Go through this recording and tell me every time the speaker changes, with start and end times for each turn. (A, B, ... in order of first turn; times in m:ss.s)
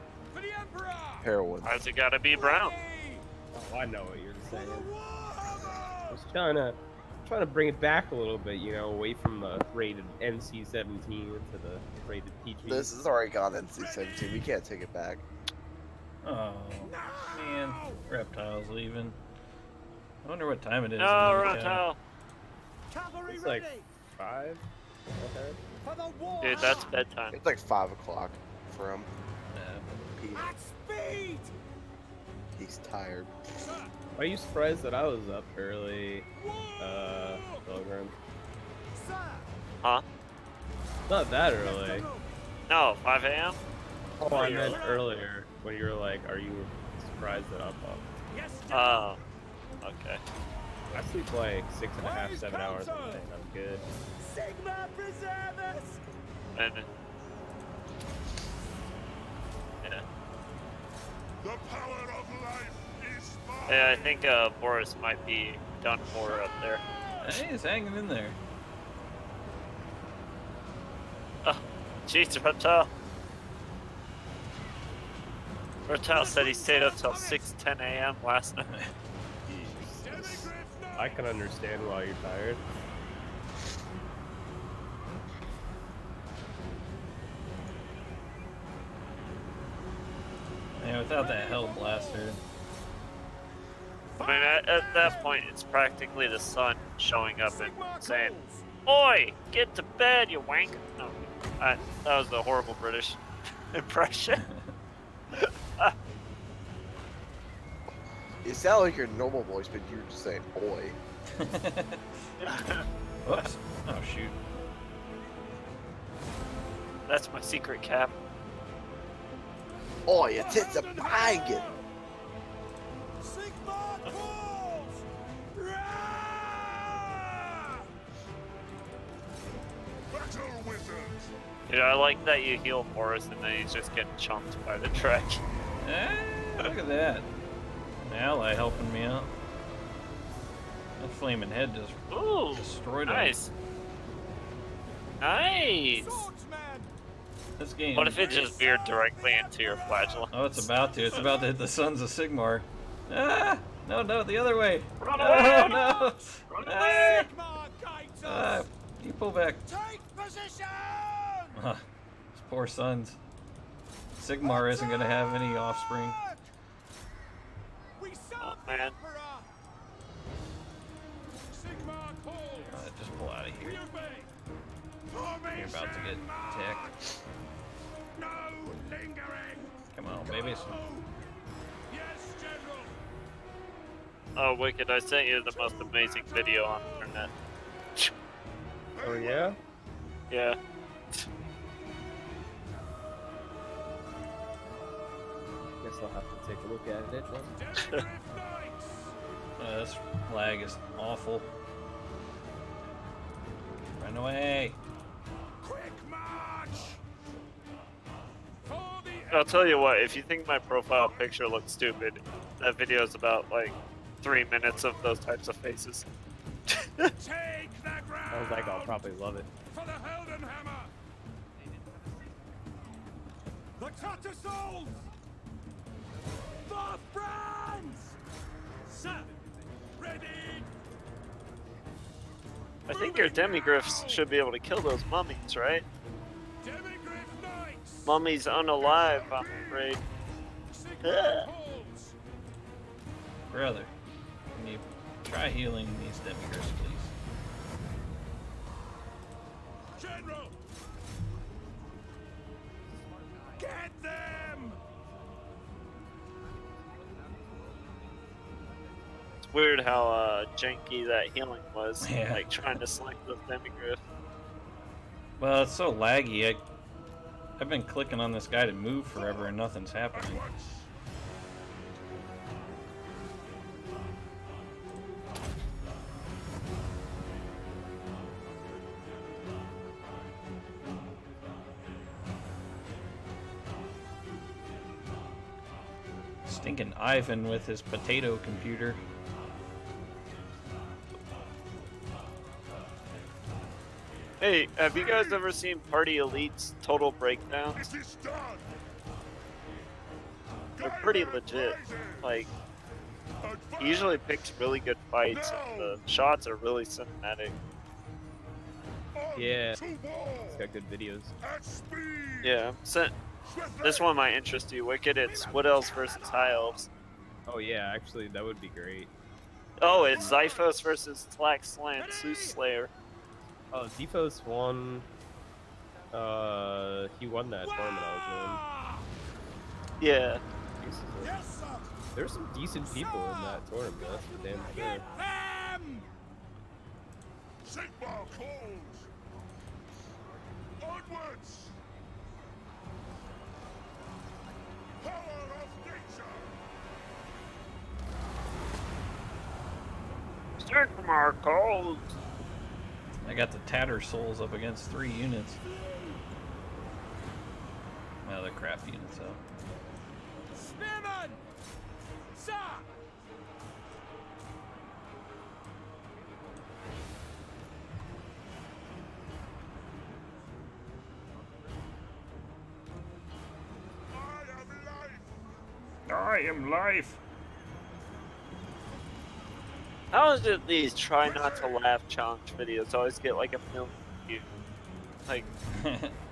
0:00.3-0:01.3 A
0:01.2-0:01.8 B
0:01.6-0:02.8 C
0:02.3-0:03.3 A
0:03.5-0:04.9 D
0:04.5-0:06.2 A
0:06.1-0:12.9 D
0:12.6-0:15.3 B
0:16.2-0:19.2 E
0:16.8-0:18.0 A
0:20.2-0:21.8 E
0:21.0-0:22.0 C
0:22.9-0:23.9 A
0:23.3-0:24.7 D
0:25.2-0:25.6 D
0:25.8-0:27.0 A
0:26.4-0:27.4 C
0:27.3-0:29.1 B
0:29.5-0:29.9 E
0:29.9-0:30.6 B
0:30.3-0:31.5 A
0:32.6-0:33.7 B
0:33.6-0:33.9 A
0:34.2-0:36.3 D
0:36.4-0:37.7 A
0:36.8-0:38.2 D
0:38.9-0:39.5 A
0:41.1-0:42.1 D
0:41.6-0:42.3 A
0:42.7-0:43.6 C
0:44.2-0:48.2 D
0:44.3-0:44.8 C
0:44.3-0:45.2 A
0:48.3-0:49.1 A
0:48.7-0:49.2 C
0:49.8-0:50.2 C
0:50.9-0:53.8 D
0:52.0-0:53.2 A
0:54.2-0:56.0 A
0:56.6-0:56.9 C
1:03.7-1:06.8 C
1:07.2-1:08.4 E
1:11.4-1:12.9 C
1:15.9-1:18.7 C
1:16.1-1:17.5 A
1:19.5-1:20.3 D
1:19.8-1:21.3 A
1:21.0-1:22.6 D
1:30.8-1:32.4 E
1:31.1-1:32.3 A
1:34.1-1:35.4 A
1:34.2-1:43.2 C
1:37.5-1:38.6 A
1:43.7-1:44.4 C
1:44.4-1:44.7 E
1:45.4-1:45.9 C
1:48.4-1:51.0 B
1:51.3-1:52.0 E
1:52.4-1:53.4 C
1:53.2-1:54.4 E
1:57.1-1:58.1 C
2:00.1-2:01.7 B
2:00.3-2:01.9 A
2:03.2-2:07.9 A
2:11.7-2:15.4 C
2:15.8-2:17.3 E
2:18.0-2:19.3 E
2:21.0-2:22.0 E
2:22.1-2:23.5 C
2:22.5-2:23.4 E
2:25.2-2:26.3 C
2:26.0-2:26.9 A
2:27.6-2:28.4 E
2:28.0-2:30.3 C
2:28.1-2:31.5 A
2:30.3-2:37.3 E
2:35.0-2:37.2 C
2:35.3-2:36.1 A
2:36.6-2:38.7 A
2:38.2-2:39.6 E
2:39.6-2:41.6 A
2:41.5-2:41.8 E
2:42.4-2:43.2 E
2:44.2-2:46.2 E
2:44.4-2:46.5 A
2:48.0-2:49.6 A
2:48.4-2:49.0 C
2:51.5-2:52.9 A
2:52.7-2:53.8 E
2:53.6-2:54.3 A
2:55.1-2:57.0 A
2:55.5-2:56.8 E
2:58.2-3:01.1 A
2:59.9-3:00.8 E
3:01.9-3:03.0 A
3:04.4-3:07.3 C
3:05.5-3:07.2 A
3:09.0-3:09.6 D
3:10.3-3:10.6 C
3:15.8-3:17.5 D
3:17.6-3:19.2 A
3:19.6-3:21.5 E
3:24.0-3:24.8 E
3:25.6-3:27.0 A
3:28.7-3:30.0 A
3:29.3-3:36.0 C
3:36.7-3:37.1 C
3:37.2-3:39.0 A
3:38.3-3:39.5 D
3:39.7-3:40.9 A
3:41.6-3:43.0 F
3:43.8-3:45.1 A
3:46.6-3:48.2 A
3:48.9-3:49.3 A
3:50.0-3:50.7 A
3:50.0-3:50.3 F
3:52.9-3:55.8 C
3:52.9-3:54.3 A
3:56.6-3:58.1 A
3:58.0-4:00.0 C
4:00.7-4:02.2 A
4:01.0-4:01.5 C
4:03.5-4:03.9 E
4:04.5-4:07.1 E
4:09.8-4:10.5 F
4:10.0-4:10.5 A
4:12.8-4:15.2 F
4:13.6-4:14.8 A
4:16.1-4:19.5 F
4:19.5-4:24.0 C
4:22.0-4:22.5 E
4:25.4-4:26.6 E
4:27.6-4:30.5 E
4:46.5-4:49.0 E
4:54.4-4:57.9 C
5:00.8-5:02.5 C
5:03.8-5:07.5 C
5:09.3-5:09.8 D
5:10.4-5:11.4 D
5:12.4-5:13.1 C
5:13.8-5:16.9 C
5:15.3-5:16.8 A
5:17.5-5:19.1 D
5:19.8-5:22.9 C
5:19.9-5:20.8 A
5:22.0-5:22.6 A
5:23.7-5:25.1 D
5:26.1-5:28.6 D
5:27.6-5:29.1 A
5:30.0-5:30.4 C
5:30.8-5:31.4 D
5:31.2-5:31.9 A
5:32.2-5:35.0 D
5:33.0-5:36.1 A
5:44.0-5:46.1 F
5:50.6-5:52.2 C
5:53.2-5:55.6 E
5:55.8-5:56.2 A
5:58.2-5:59.4 E
6:00.6-6:01.4 A
6:02.3-6:02.9 A
6:04.7-6:05.2 F
6:06.0-6:07.2 F
6:09.8-6:10.4 F
6:11.2-6:12.8 F
6:16.1-6:17.2 E
6:20.1-6:24.4 C
6:25.2-6:25.5 C
6:25.8-6:26.2 E